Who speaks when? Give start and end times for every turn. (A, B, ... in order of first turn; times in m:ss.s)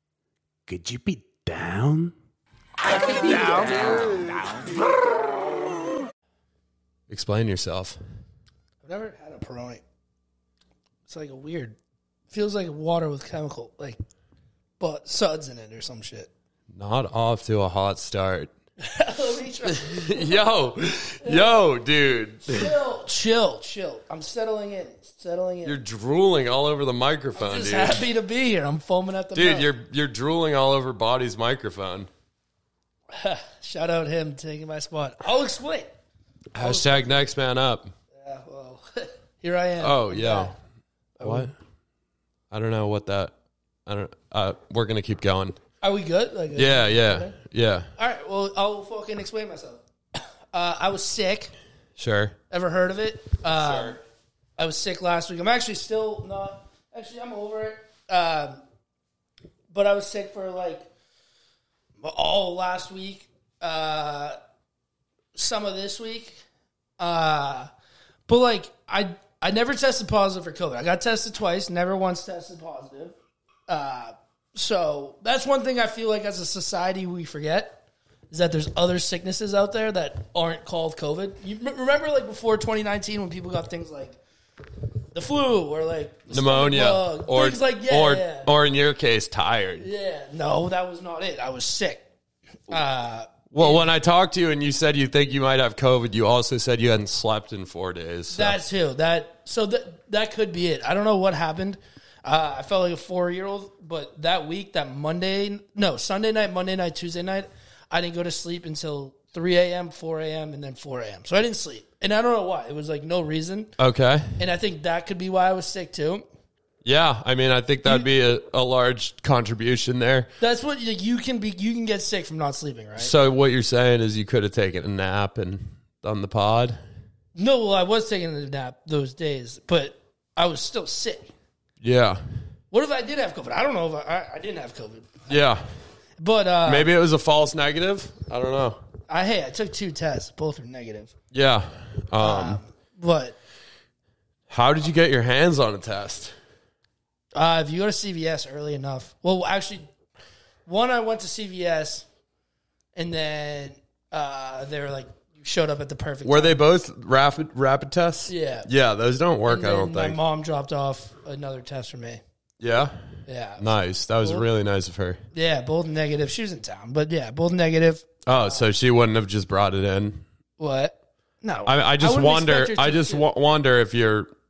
0:00.7-0:02.1 A
0:02.8-0:05.2 A
0:07.1-0:08.0 B
0:08.8-0:09.8 C
0:11.1-0:11.8 C
0:12.3-0:14.0 C
0:14.8-0:16.3 C
0:16.7-0:18.5 B
0:18.8-0:20.4 C
0:19.6-0:22.8 B
0:21.2-0:21.6 C
0:22.5-0:25.8 C
0:25.6-0:28.0 B
0:27.3-0:29.7 C
0:29.3-0:32.1 B
0:33.1-0:35.9 C
0:36.5-0:37.9 B
0:36.6-0:37.3 C
0:38.2-0:40.6 C
0:39.8-0:40.5 B
0:41.2-0:41.5 C
0:41.2-0:41.5 B
0:42.5-0:43.3 B
0:43.8-0:45.6 B
0:45.8-0:47.3 C
0:46.6-0:47.9 B
0:48.0-0:51.5 C
0:52.0-0:52.4 B
0:52.5-0:54.0 C
0:53.5-0:54.0 B
0:54.6-0:58.6 C
0:59.7-1:00.9 C
1:02.0-1:04.4 C
1:05.3-1:06.4 C
1:07.0-1:07.7 C
1:08.3-1:13.1 C
1:13.7-1:24.2 C
1:25.1-1:28.5 C
1:26.3-1:29.9 B
1:29.8-1:32.0 C
1:32.7-1:33.9 C
1:33.5-1:38.6 B
1:38.3-1:53.7 C
1:53.8-1:54.3 B
1:54.4-1:56.2 C
1:56.8-2:00.3 B
2:00.4-2:03.1 C
2:03.0-2:06.8 B
2:07.4-2:11.3 C
2:11.8-2:12.2 B
2:12.7-2:15.3 C
2:15.3-2:15.6 B
2:16.2-2:16.9 C
2:16.6-2:18.8 B
2:19.1-2:21.1 C
2:21.3-2:22.6 B
2:22.2-2:23.4 C
2:24.5-2:26.3 B
2:27.3-2:29.8 C
2:30.6-2:32.1 C
2:33.0-2:36.6 C
2:36.2-2:40.2 B
2:38.3-2:38.7 C
2:39.5-2:42.2 C
2:42.6-2:43.0 B
2:43.3-2:43.7 C
2:43.6-2:45.2 B
2:45.3-2:48.7 C
2:48.2-2:50.2 B
2:50.6-2:53.2 C
2:51.6-2:54.3 B